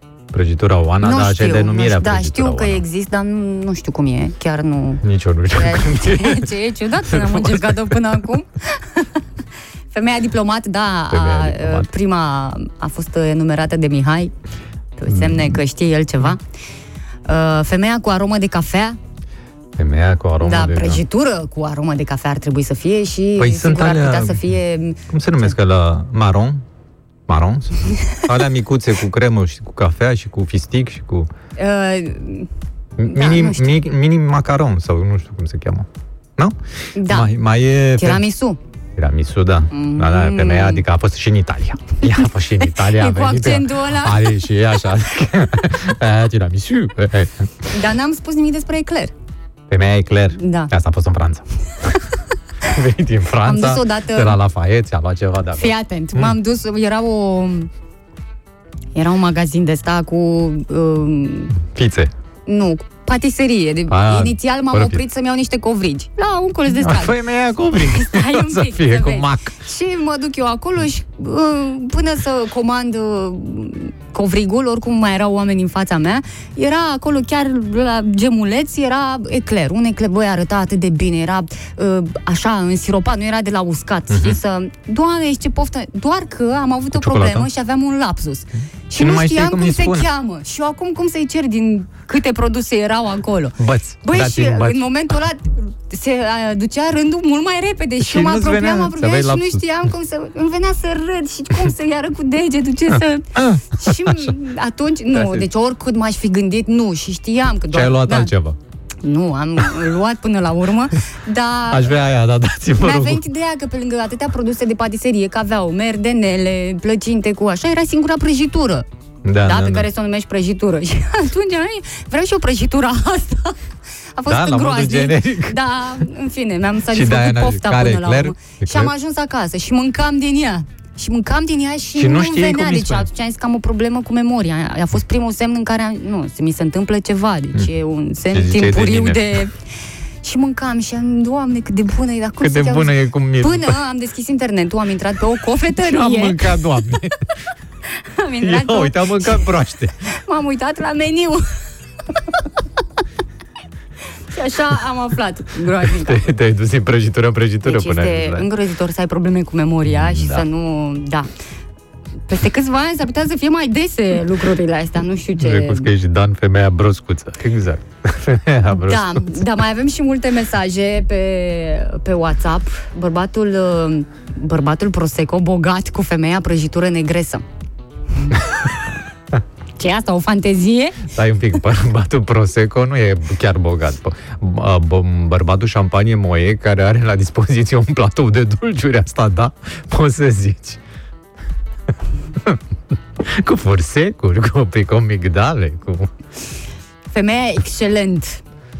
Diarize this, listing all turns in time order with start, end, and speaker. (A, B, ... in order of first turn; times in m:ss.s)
0:00.3-0:02.8 A
0:01.0-0:05.0 B
0:05.0-0:06.5 A
0:05.5-0:09.1 B
0:07.0-0:08.2 A
0:09.9-0:14.3 B
0:11.1-0:11.9 A
0:15.0-0:16.4 B
0:15.1-0:15.6 A
0:17.2-0:19.0 B
0:19.8-0:21.0 A
0:20.4-0:25.5 B
0:23.4-0:24.5 A
0:25.1-0:26.6 A
0:27.3-0:31.3 A
0:31.6-0:32.5 B
0:33.0-0:38.2 A
0:33.0-0:33.7 B
0:36.9-0:37.3 B
0:38.0-0:38.6 B
0:39.0-0:47.5 A
0:39.7-0:40.8 B
0:42.7-0:44.4 B
0:47.7-0:49.1 B
0:49.7-0:51.9 A
0:50.4-0:50.7 B
0:52.6-0:56.4 A
0:53.4-0:54.4 B
0:55.6-0:57.7 B
0:58.9-1:01.6 B
1:01.6-1:02.1 A
1:02.4-1:07.2 B
1:03.9-1:05.0 A
1:06.7-1:09.6 A
1:07.8-1:48.3 B
1:24.1-1:24.4 A
1:26.9-1:27.5 A
1:28.9-1:30.1 A
1:33.6-1:34.8 A
1:38.0-1:39.6 A
1:43.3-1:44.3 A
1:45.1-1:45.5 A
1:47.7-1:48.6 A
1:49.0-1:51.9 B
1:51.7-1:53.2 A
1:52.8-1:58.8 B
1:59.2-1:59.9 A
1:59.4-2:03.6 B
2:04.2-2:19.5 B
2:04.3-2:05.6 A
2:06.9-2:08.9 A
2:12.0-2:13.1 A
2:18.3-2:19.4 A
2:20.2-2:26.4 B
2:22.4-2:23.8 A
2:25.8-2:27.2 A
2:28.2-2:29.4 B
2:28.4-2:30.0 A
2:30.1-2:31.4 B
2:34.3-2:36.3 B
2:35.8-2:38.5 A
2:37.6-2:41.3 B
2:39.9-2:40.4 A
2:42.3-2:45.9 B
2:45.4-2:49.4 A
2:48.7-2:57.4 B
2:59.8-3:01.0 B
3:01.1-3:10.8 A
3:13.2-3:16.1 A
3:17.1-3:18.4 B